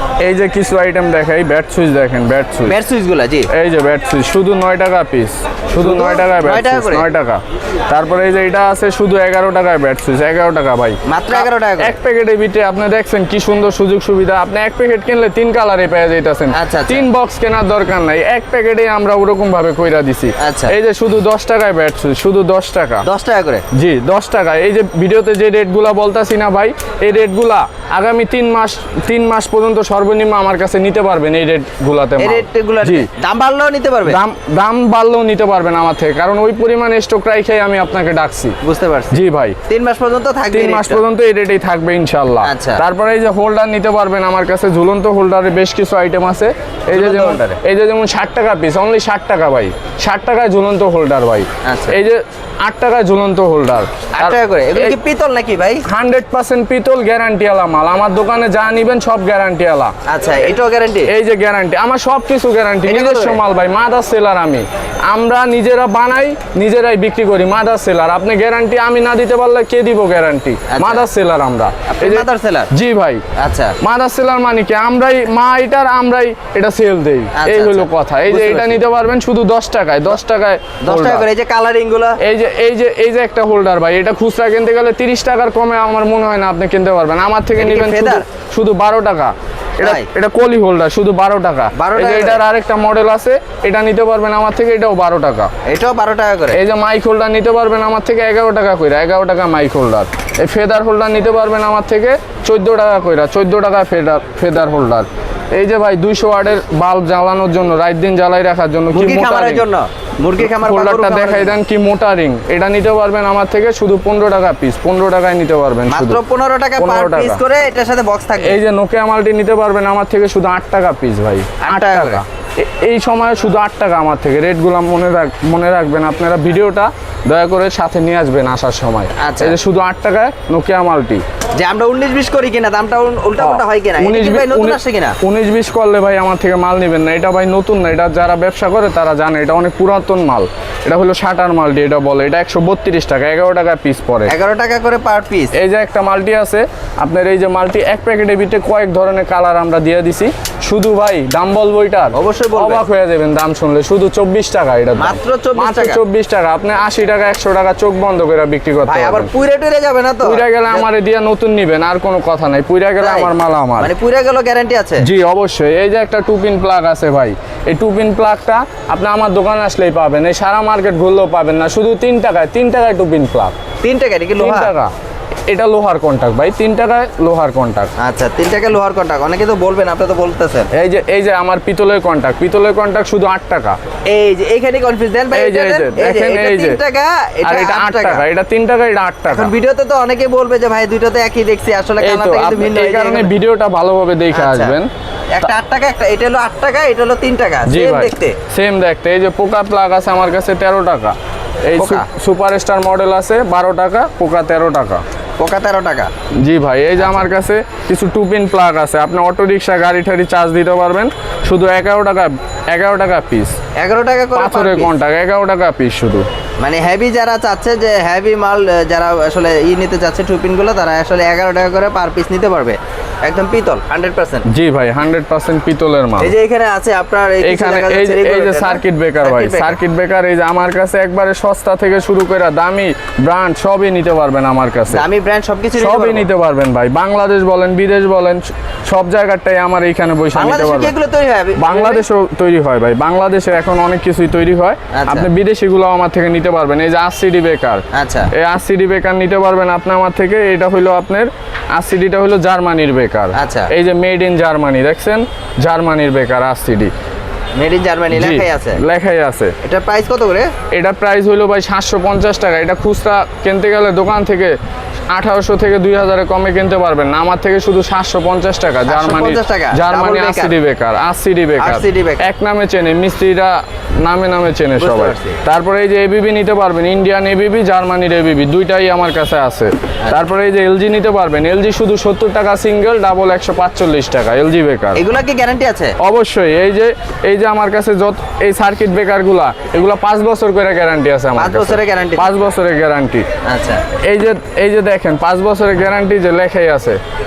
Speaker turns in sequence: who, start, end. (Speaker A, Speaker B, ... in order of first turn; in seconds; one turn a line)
Speaker A: 0.2-2.7
Speaker B: 2.6-3.5
Speaker A: 3.5-23.0
Speaker B: 5.8-7.0
Speaker B: 11.1-11.9
Speaker B: 16.5-17.1
Speaker B: 20.4-20.7
Speaker B: 23.0-23.6
Speaker A: 23.7-33.1
Speaker B: 32.2-34.2
Speaker A: 34.0-38.5
Speaker B: 38.6-41.0
Speaker A: 39.1-39.6
Speaker A: 40.5-54.9
Speaker B: 42.4-42.8
Speaker B: 46.9-47.6
Speaker B: 51.6-52.0
Speaker B: 54.1-55.8
Speaker A: 55.8-59.9
Speaker B: 60.1-61.1
Speaker A: 61.1-73.2
Speaker B: 62.8-63.4
Speaker B: 70.7-71.1
Speaker B: 71.9-72.7
Speaker B: 73.3-73.8
Speaker A: 73.8-81.2
Speaker B: 77.3-78.8
Speaker B: 80.8-82.2
Speaker A: 82.2-95.5
Speaker B: 87.5-88.2
Speaker B: 89.8-90.1
Speaker B: 91.7-92.4
Speaker B: 95.6-96.6
Speaker A: 96.5-109.6
Speaker B: 108.9-111.6
Speaker A: 110.4-116.2
Speaker B: 115.9-118.6
Speaker A: 116.8-117.4
Speaker A: 118.4-131.2
Speaker B: 121.6-122.2
Speaker B: 129.2-129.6
Speaker B: 131.6-135.2
Speaker A: 133.4-144.3
Speaker B: 144.3-145.5
Speaker A: 145.5-159.3
Speaker B: 152.1-152.8
Speaker B: 155.0-156.0
Speaker B: 158.8-160.8
Speaker A: 160.2-163.9
Speaker B: 163.0-165.1
Speaker A: 165.0-173.6
Speaker B: 173.8-174.7
Speaker A: 174.4-174.9
Speaker A: 175.5-177.9
Speaker B: 178.0-180.7
Speaker A: 180.7-183.8
Speaker B: 184.1-188.2
Speaker A: 185.3-186.8
Speaker A: 187.4-189.5
Speaker B: 189.3-193.3
Speaker A: 192.0-194.9
Speaker B: 194.3-194.8
Speaker B: 195.3-198.3
Speaker A: 197.7-205.0
Speaker B: 201.8-202.1
Speaker B: 205.4-206.1
Speaker A: 206.4-213.6
Speaker B: 207.0-207.2
Speaker B: 213.8-214.9
Speaker A: 214.3-216.2
Speaker B: 216.6-224.4
Speaker A: 224.4-226.3
Speaker B: 226.2-229.8
Speaker A: 227.4-235.0
Speaker B: 234.9-236.3
Speaker A: 235.8-240.9
Speaker B: 240.3-242.0
Speaker A: 241.6-256.9
Speaker B: 244.9-245.3
Speaker B: 247.9-248.3
Speaker B: 253.3-253.7
Speaker B: 257.6-258.8
Speaker A: 258.1-259.5
Speaker B: 259.6-260.5
Speaker A: 260.7-264.6
Speaker A: 265.1-285.0
Speaker B: 268.9-270.5
Speaker B: 271.6-272.3
Speaker B: 274.8-275.4
Speaker B: 284.9-285.9
Speaker A: 286.0-293.2
Speaker B: 291.3-292.3
Speaker B: 293.4-293.8
Speaker A: 294.0-297.0